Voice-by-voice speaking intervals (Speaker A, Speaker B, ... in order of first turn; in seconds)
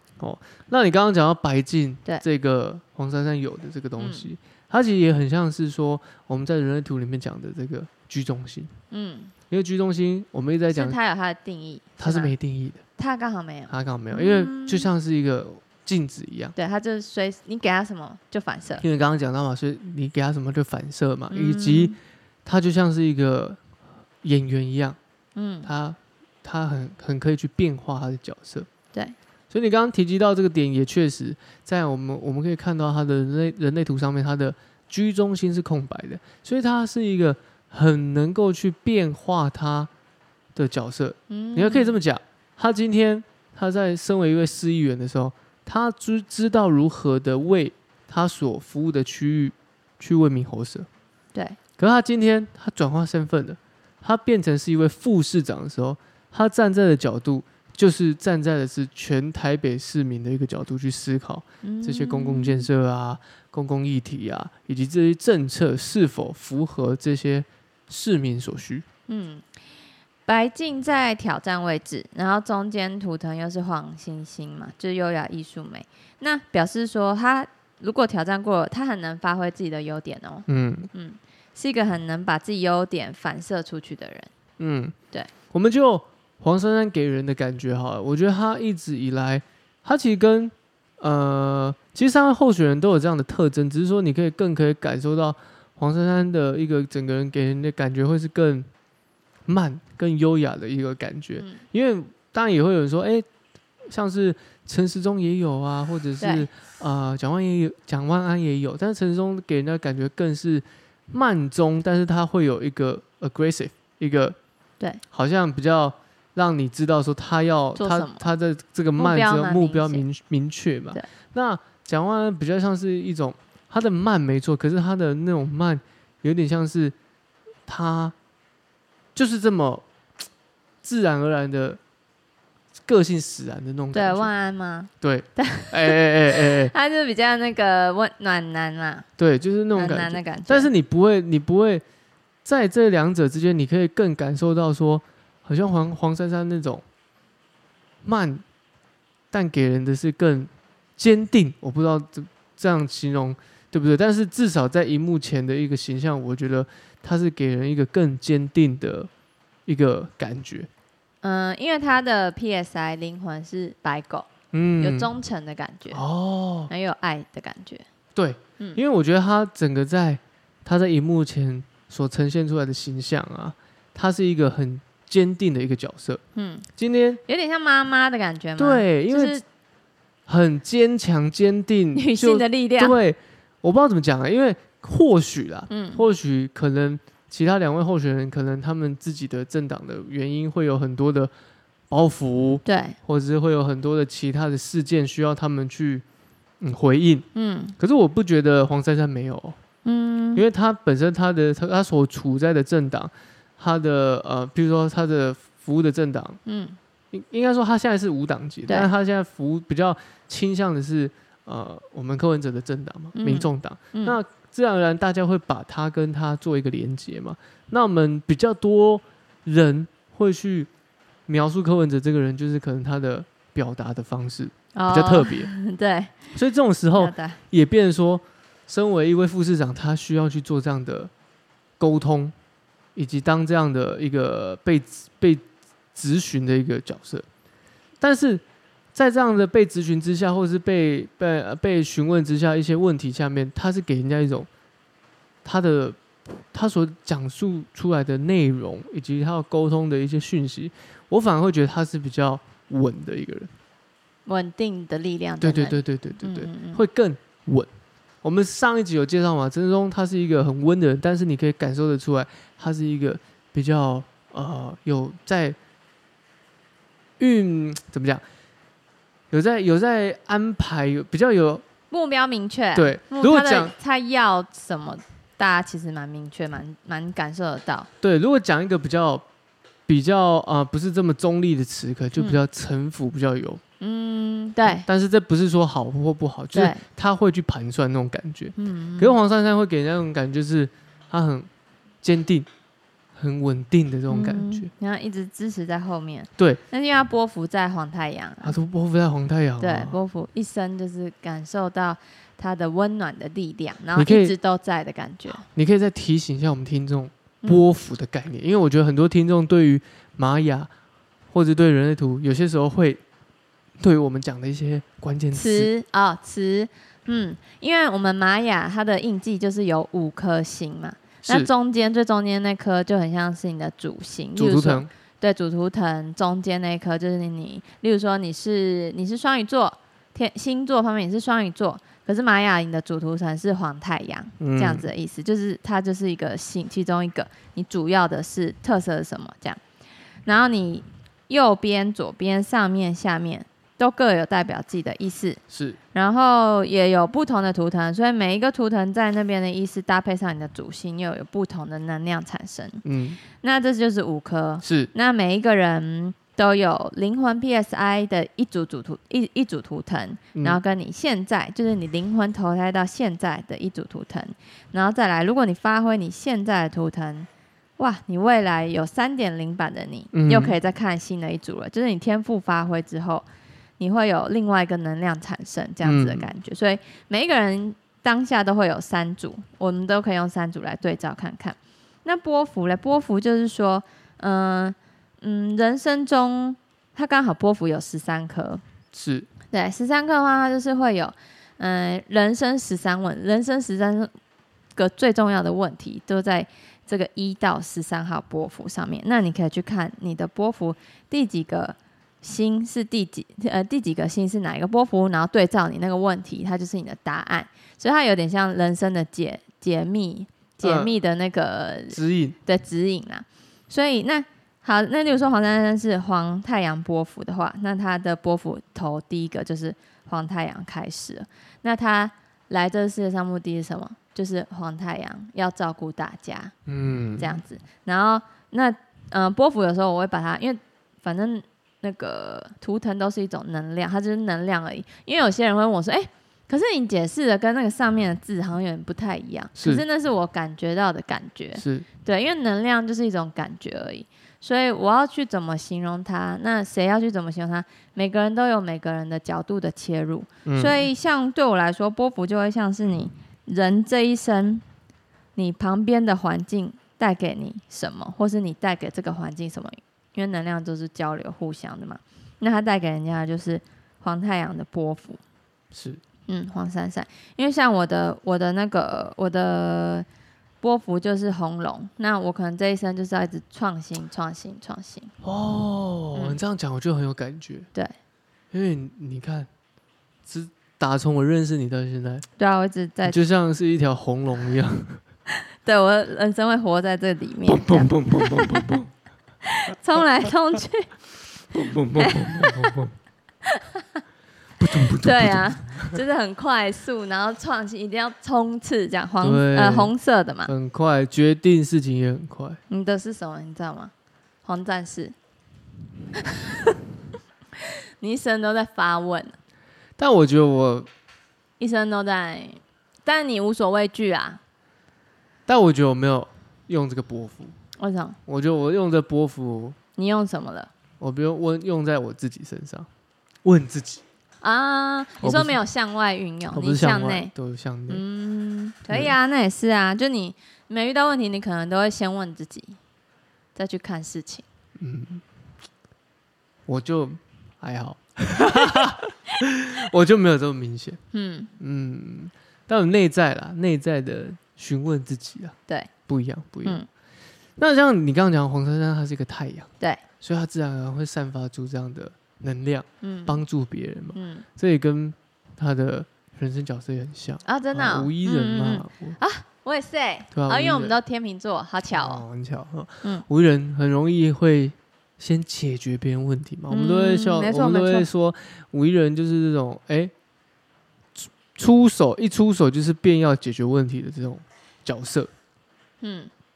Speaker A: 0.2-8.8, 9.5-11.0, 12.0-12.8, 13.7-16.6, 18.8-23.6, 24.2-25.0, 25.6-28.7, 29.5-39.9, 40.6-50.9, 51.8-68.8, 80.5-80.9, 84.6-85.0, 85.5-98.7, 99.5-103.3, 103.9-114.4, 115.1-127.0, 127.7-128.2, 129.2-129.8, 130.8-131.8, 132.9-134.3, 135.0-136.7, 139.2-141.8, 142.4-146.8, 148.0-148.4, 149.3-159.1, 159.7-160.7, 164.5-165.1, 165.9-166.7, 168.2-176.2, 176.8-177.2, 178.6-179.4, 180.3-191.3, 191.9-196.1, 196.6-197.3, 197.8-199.6, 200.3-206.4, 207.1-220.7, 221.3-225.5, 226.3-231.1, 231.8-232.3, 233.0-235.4, 235.9-237.3, 238.0-238.4, 238.9-244.5, 245.4-253.5, 255.4-257.7, 258.2-265.6, 267.2-268.2, 269.3-271.6, 272.8-273.7, 278.0-279.2, 279.9-283.6, 284.7-291.5, 292.0-292.5, 293.2-294.7, 298.4-300.0, 303.9-304.3, 305.4-310.7, 311.3-313.0, 313.8-315.7, 321.2-321.5, 324.4-324.9, 334.4-334.9, 345.5-345.8, 352.8-353.2, 354.6-354.9, 370.1-370.6, 375.8-376.3, 388.9-389.3, 410.6-410.9, 411.9-412.4, 426.7-427.4, 439.6-439.8, 441.6-441.9, 450.4-450.9, 465.7-466.0, 475.2-477.7, 478.5-479.5, 480.3-482.3, 483.1-485.0, 487.5-488.9, 491.5-492.9, 494.6-496.0, 499.2-499.9, 500.4-502.6, 510.0-510.9, 515.5-517.5, 518.3-519.8, 521.0-522.9, 523.4-524.0, 525.2-525.6, 526.5-528.0, 528.9-529.1, 534.8-535.2, 536.7-541.0, 541.6-545.6, 546.1-546.8, 547.6-549.7, 550.2-559.2, 560.3-561.0, 561.9-570.1, 571.2-575.3
Speaker B: 4.0-4.3, 8.9-9.3, 10.7-12.3, 13.0-14.9, 16.6-18.8, 21.3-22.0, 25.4-25.7, 41.3-42.0, 61.6-62.7, 69.1-69.5, 70.3-84.3, 106.2-106.5, 117.8-118.3, 119.0-120.0, 133.9-139.1, 139.8-140.7, 161.2-164.3, 164.8-166.0, 166.7-167.8, 176.3-176.7, 177.3-179.4, 181.9-182.9, 185.7-186.0, 192.7-193.0, 197.3-197.8, 199.8-200.4, 206.5-206.8, 213.2-214.2, 224.7-226.3, 227.0-227.4, 254.3-256.8, 271.9-277.9, 283.8-284.9, 286.5-286.8, 288.6-289.2, 294.1-298.6, 299.6-305.4, 315.3-339.6, 340.2-345.4, 345.9-373.3, 373.8-388.6, 389.5-394.1, 394.8-426.5, 427.2-454.6, 455.4-465.2, 466.3-470.1, 470.6-475.1, 482.4-483.2, 485.3-488.7, 489.4-490.9, 492.0-492.8, 493.4-494.0, 494.8-500.5, 502.7-503.9, 504.4-505.1, 506.2-506.8, 507.6-509.4, 511.6-514.4, 517.8-518.2, 520.0-520.7, 524.4-527.3, 527.9-532.8, 533.5-534.5, 541.1-541.5, 553.0-553.4, 554.1-554.5, 557.5-562.2, 566.7-568.1, 576.0-576.3